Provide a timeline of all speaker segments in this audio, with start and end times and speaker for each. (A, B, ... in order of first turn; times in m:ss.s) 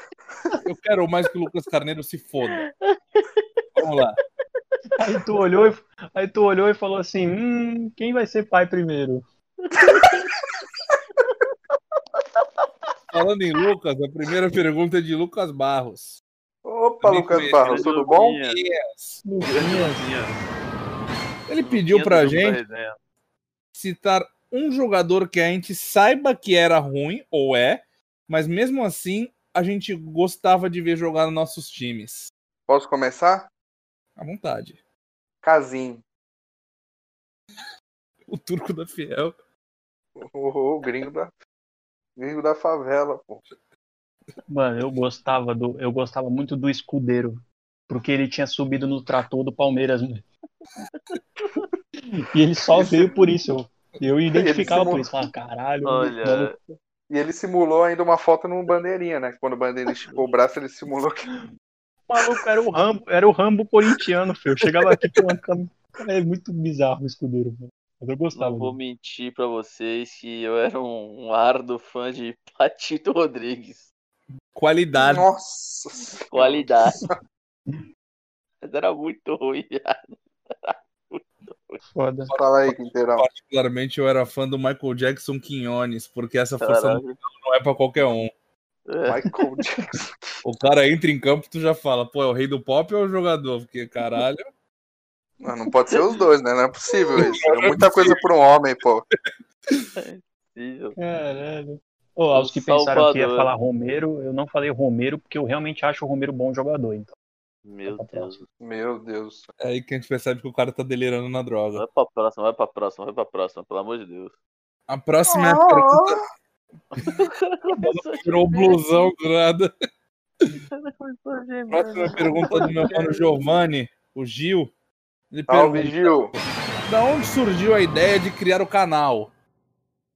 0:00.6-0:02.6 A
0:02.4-0:04.0 B
0:03.8-0:04.2 A
0:05.0-0:09.2 C
0:09.6-0:10.5 B
0:11.2-0:11.5 B
0:12.1-0:12.9 B
0:13.1-0:16.2 A
0:16.6-0:18.4 D
0:17.0-0:19.2 A
0:17.6-0:18.6 B
0:19.2-0:20.1 C
0:19.4-0:20.4 B
0:21.5-0:22.6 A
0:21.6-0:23.0 B
0:23.7-0:32.3 A
0:32.7-0:33.5 D
0:34.2-0:34.8 A
0:35.4-0:36.0 D
0:38.3-0:39.3 A
0:40.2-0:41.3 D
0:42.2-0:43.4 D
0:44.5-0:50.2 C
0:50.9-0:51.6 B
0:52.1-0:56.5 C
0:52.7-0:53.2 D
0:54.3-0:55.3 D
0:55.8-0:56.5 B
0:57.1-1:01.2 D
1:02.1-1:08.7 C
1:08.4-1:13.9 B
1:14.5-1:15.2 A
1:15.0-1:17.1 D
1:16.3-1:17.0 B
1:18.6-1:21.8 B
1:21.9-1:22.3 C
1:22.3-1:28.3 A
1:22.3-1:23.2 D
1:26.6-1:27.1 B
1:28.9-1:29.3 B
1:29.1-1:30.4 D
1:30.4-1:34.4 A
1:35.4-1:39.0 D
1:37.0-1:37.9 B
1:37.2-1:38.2 A
1:40.0-1:41.0 B
1:41.0-1:47.1 C
1:42.3-1:43.5 B
1:47.6-1:48.4 B
1:47.8-1:48.4 C
1:48.6-1:49.5 D
1:49.6-1:51.8 A
1:51.7-1:54.3 B
1:54.9-1:56.2 A
1:55.3-1:56.2 D
1:56.9-1:59.1 B
1:57.7-1:59.7 A
2:00.7-2:03.3 B
2:01.7-2:04.7 A
2:05.3-2:06.1 A
2:05.5-2:06.3 D
2:06.9-2:09.3 A